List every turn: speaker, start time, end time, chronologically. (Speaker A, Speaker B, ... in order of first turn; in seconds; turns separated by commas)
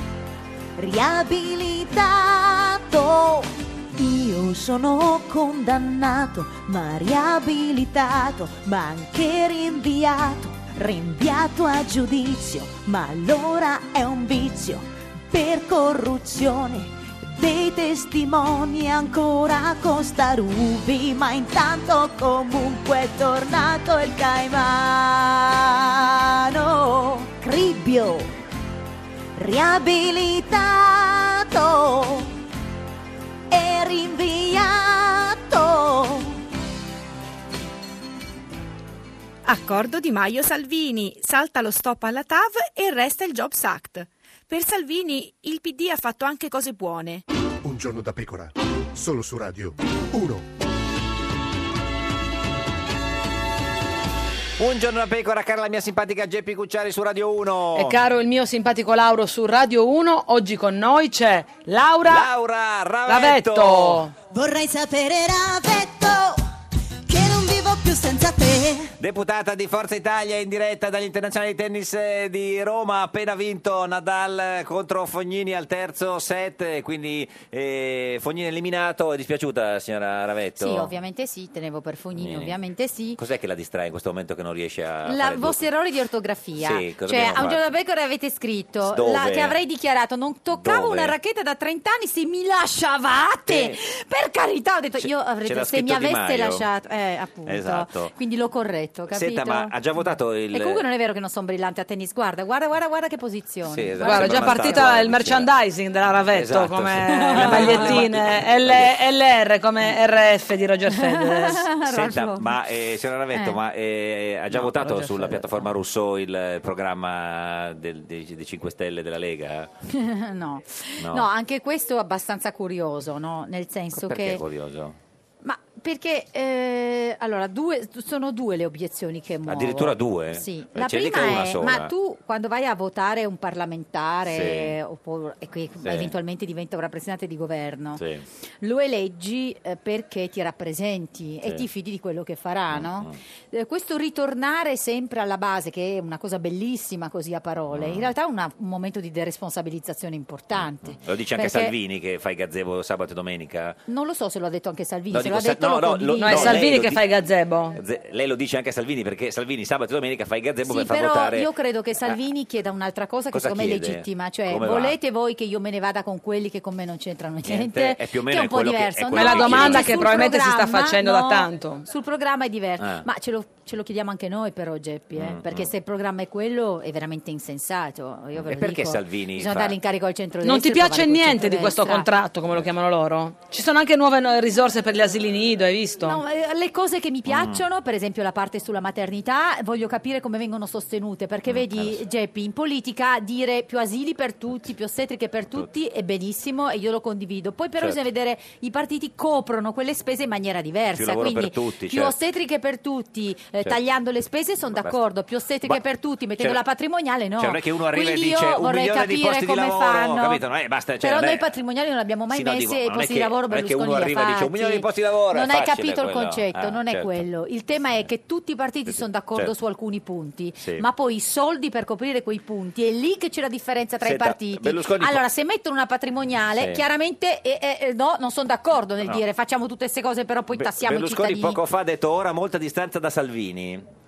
Speaker A: 0.8-28.3, Speaker A: 29.4-32.3, Speaker A: 33.5-36.4, Speaker B: 39.4-47.2, Speaker C: 47.6-50.5, Speaker D: 54.6-58.0, Speaker E: 57.7-62.3, Speaker D: 62.1-64.1, Speaker E: 63.1-64.1, Speaker A: 64.3-66.4, Speaker A: 67.1-68.9, Speaker D: 69.0-80.9, Speaker F: 80.6-83.2, Speaker D: 82.2-82.6, Speaker D: 83.2-85.6, Speaker F: 85.0-99.8, Speaker D: 86.6-87.6, Speaker D: 88.8-89.5, Speaker D: 90.5-91.2, Speaker D: 93.5-93.8, Speaker D: 95.0-96.7, Speaker D: 97.5-98.1, Speaker D: 99.1-100.8, Speaker F: 100.5-104.9, Speaker D: 103.7-105.5, Speaker E: 104.0-111.6, Speaker D: 106.3-108.9, Speaker F: 107.1-108.0, Speaker F: 110.9-112.5, Speaker D: 111.8-119.7, Speaker F: 113.3-113.6, Speaker F: 119.9-124.4, Speaker D: 121.0-121.3, Speaker D: 123.9-125.0, Speaker F: 125.4-138.0, Speaker D: 129.5-131.9, Speaker D: 134.3-134.7, Speaker D: 135.8-136.1, Speaker D: 137.9-138.2, Speaker F: 138.6-151.7, Speaker D: 142.7-143.2, Speaker D: 147.7-148.1, Speaker D: 150.6-153.8, Speaker F: 153.9-156.7, Speaker D: 155.1-157.0, Speaker E: 156.2-157.8, Speaker D: 157.7-161.5, Speaker F: 160.7-182.1, Speaker D: 163.3-164.9, Speaker D: 167.4-170.2, Speaker E: 169.1-171.8, Speaker D: 172.8-173.0, Speaker D: 175.1-175.7, Speaker D: 178.3-179.8, Speaker E: 180.4-186.2, Speaker F: 186.0-210.4, Speaker D: 187.3-187.6, Speaker D: 191.5-192.0, Speaker D: 200.9-202.1, Speaker D: 207.4-211.5, Speaker F: 211.0-231.6, Speaker D: 212.3-217.2, Speaker D: 218.9-219.5, Speaker D: 224.0-225.2, Speaker D: 226.6-226.8, Speaker D: 230.5-233.9